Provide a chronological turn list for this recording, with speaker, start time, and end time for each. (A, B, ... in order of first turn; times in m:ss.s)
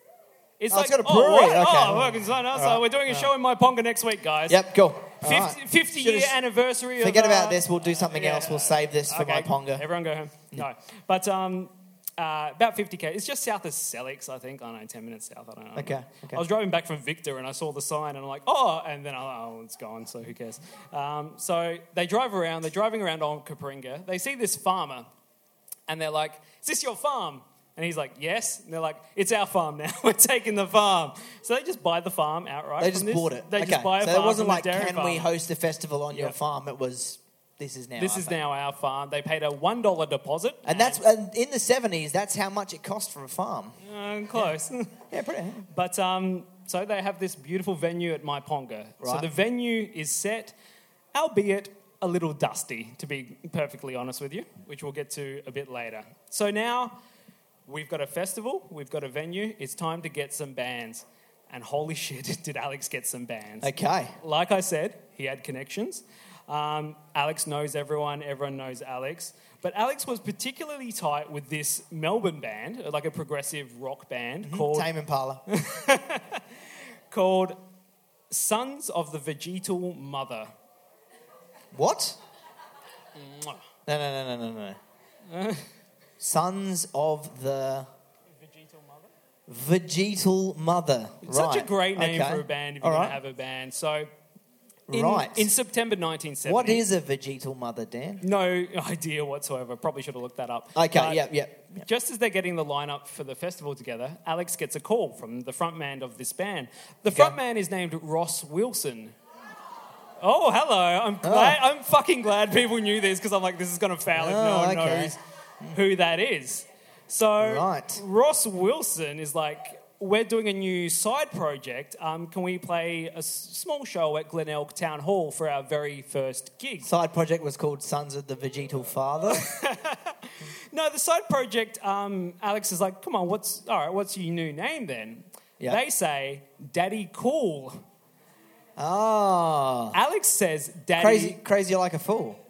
0:00.6-0:04.6 A
0:00.7-0:03.3 B
0:04.5-0:06.4 B
0:05.2-0:25.1 A
0:07.0-0:09.9 B
0:15.8-0:16.4 B
0:25.9-0:35.3 A
0:32.8-0:38.4 B
0:38.0-0:41.0 A
0:40.6-0:43.8 B
0:43.8-0:45.0 A
0:45.1-0:45.6 B
0:45.7-0:50.6 A
0:49.0-0:49.3 B
0:51.1-0:57.0 A
0:57.7-1:14.9 A
1:03.6-1:04.2 B
1:14.4-1:15.4 B
1:15.5-1:16.4 A
1:17.1-1:17.6 A
1:18.3-1:20.5 A
1:21.7-1:22.2 B
1:23.2-1:23.6 A
1:23.9-1:24.8 B
1:25.3-1:25.7 A
1:26.2-1:27.9 B
1:28.4-1:29.1 A
1:29.5-1:33.2 B
1:31.2-1:34.1 A
1:34.9-1:35.5 B
1:34.9-1:36.8 A
1:36.4-1:38.2 B
1:38.2-1:49.2 A
1:40.8-1:41.8 B
1:47.1-1:47.4 B
1:50.2-1:55.2 A
1:51.2-1:51.6 B
1:54.2-1:55.8 B
1:55.7-2:06.9 A
1:57.4-1:58.0 B
2:06.8-2:09.5 B
2:09.3-2:17.8 A
2:18.8-2:20.0 B
2:19.9-2:21.4 A
2:21.0-2:22.4 B